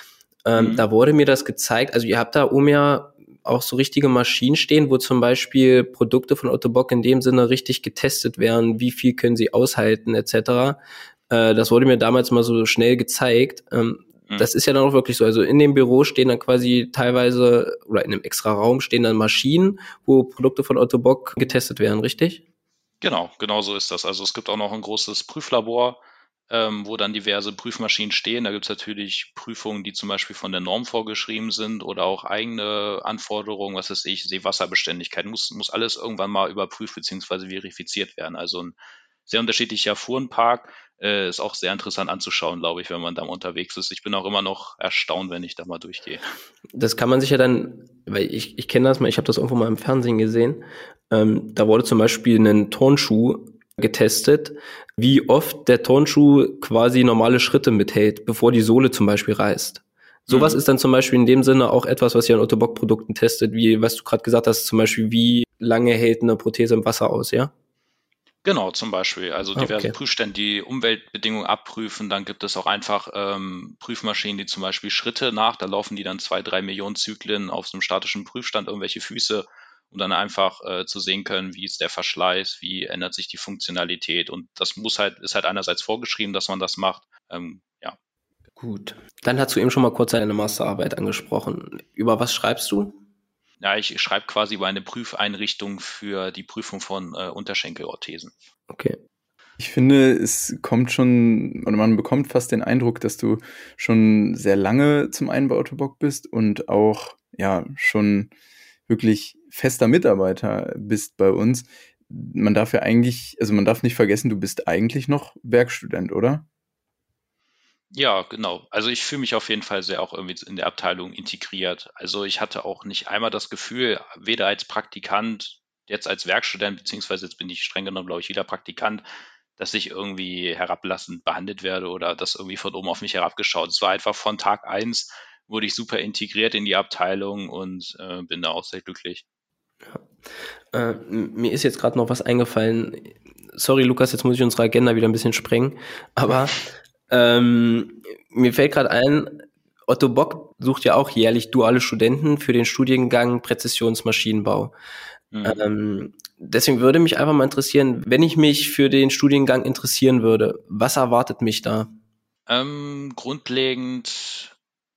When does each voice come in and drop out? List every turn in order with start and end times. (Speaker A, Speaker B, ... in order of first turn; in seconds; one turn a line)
Speaker A: 0.4-22.4
Speaker B: 0.6-0.8
Speaker B: 23.0-38.7
Speaker B: 39.3-46.2
Speaker A: 46.7-67.5
Speaker B: 60.3-60.6
Speaker B: 68.4-88.0
Speaker A: 69.5-69.9
Speaker A: 88.6-93.0
Speaker B: 93.6-98.3
Speaker A: 98.7-99.0
Speaker C: 99.6-108.3
Speaker C: 108.9-116.5
Speaker B: 117.9-129.0
Speaker B: 129.6-139.2
Speaker A: 140.7-154.7
Speaker B: 155.3-155.6
Speaker A: 155.4-161.9
Speaker B: 162.5-164.5